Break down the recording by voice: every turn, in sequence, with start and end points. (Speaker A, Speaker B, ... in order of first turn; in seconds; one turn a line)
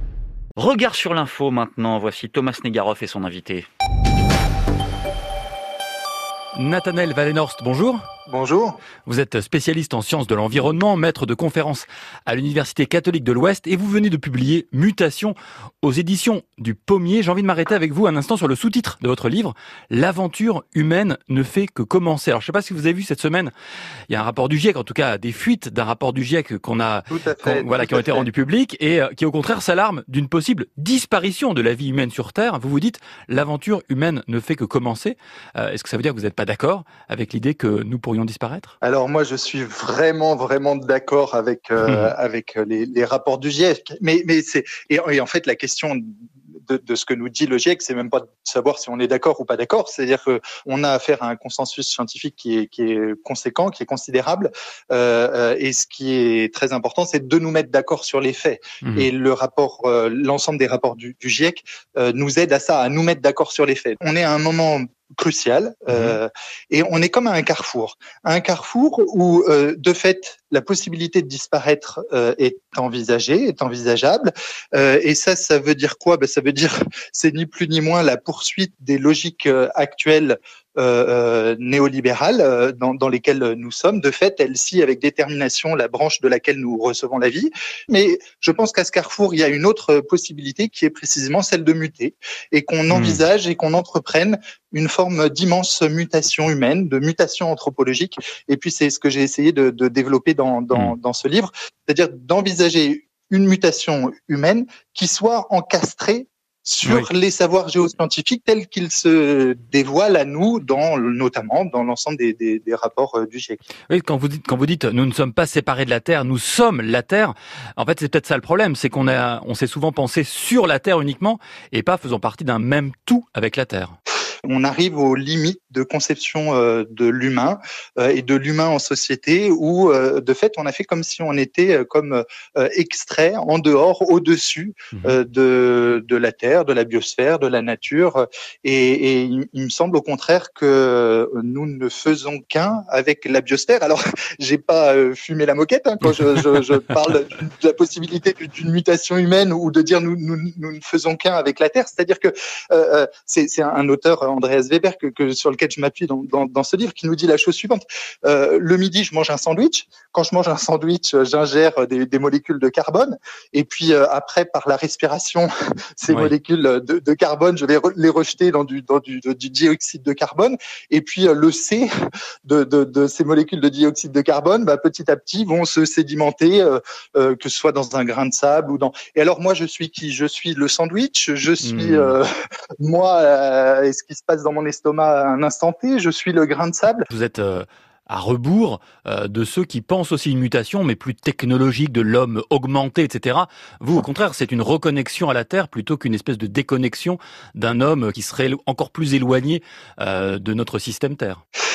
Speaker A: 0.6-3.6
Speaker B: 6.5-8.0
Speaker C: 8.3-8.8
Speaker B: 9.1-23.5
Speaker B: 24.1-38.7
Speaker C: 27.1-28.3
Speaker C: 38.8-113.6
Speaker B: 41.8-42.1
Speaker B: 65.9-66.2
Speaker B: 92.9-93.2
Speaker B: 106.8-107.1
Speaker B: 113.9-123.9
Speaker C: 124.4-171.9
Speaker C: 172.4-182.3
Speaker B: 181.6-182.2
Speaker C: 182.8-187.1
Speaker B: 187.1-201.4